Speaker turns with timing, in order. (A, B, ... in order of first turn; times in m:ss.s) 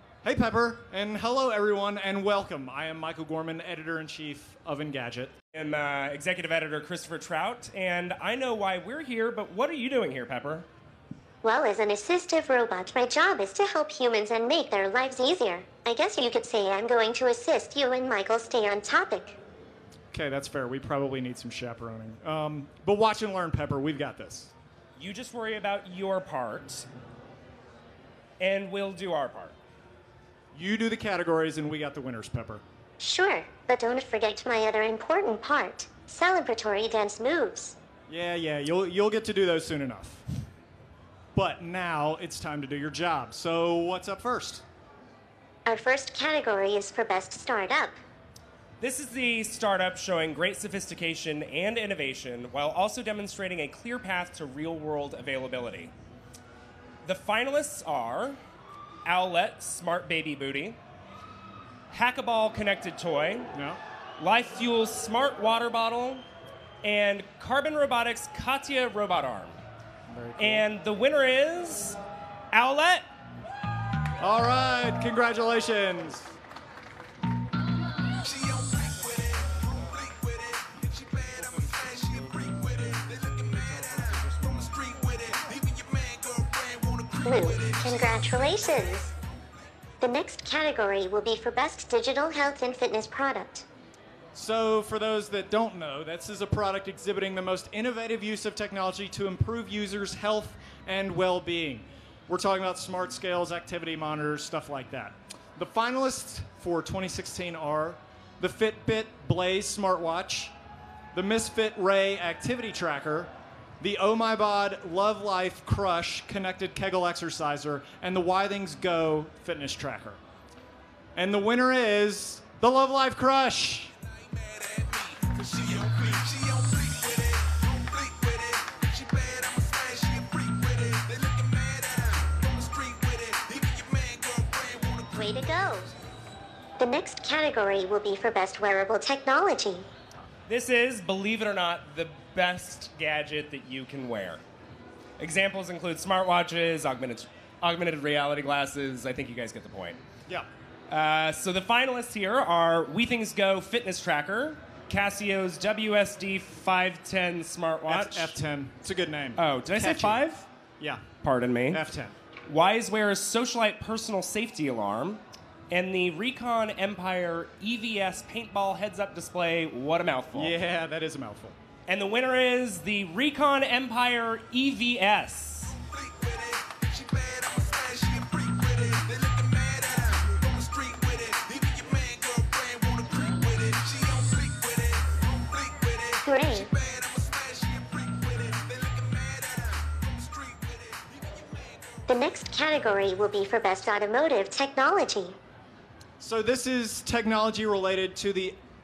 0:00.2-0:05.3 A
0:05.5-0:10.7 B
0:11.4-0:19.4 C
0:20.1-0:24.5 A
0:25.0-0:26.9 B
0:28.4-0:29.5 B
0:30.5-0:32.6 A
0:33.0-0:37.8 C
0:38.1-0:40.2 A
0:41.3-0:44.6 A
0:45.6-0:47.9 C
0:48.8-0:55.9 B
0:57.0-0:58.4 B
0:59.0-1:00.8 B
1:01.9-1:03.5 B
1:03.5-1:03.8 A
1:04.2-1:06.2 B
1:06.8-1:09.6 B
1:10.1-1:10.6 A
1:10.4-1:12.0 B
1:12.5-1:13.0 B
1:14.2-1:16.3 A
1:18.2-1:19.6 D
1:20.8-1:23.9 D
1:21.4-1:24.7 A
1:24.6-1:27.8 D
1:27.2-1:29.1 C
1:30.0-1:33.6 C
1:34.3-1:50.5 A
1:51.1-2:00.2 A
2:01.1-2:03.9 A
2:04.6-2:15.4 D
2:15.1-2:15.9 C
2:16.8-2:19.9 C
2:20.5-2:24.4 B
2:25.2-2:30.0 B
2:30.9-2:38.3 B
2:37.8-2:40.2 A
2:39.4-2:40.5 B
2:41.2-2:41.8 B
2:41.7-2:42.1 A
2:42.5-2:50.6 B
2:50.3-2:51.5 A
2:51.9-2:55.8 B
2:56.0-3:05.0 D
3:05.5-3:06.2 D
3:06.2-3:06.7 C
3:06.7-3:11.3 D
3:12.1-3:15.4 C
3:16.2-3:18.6 A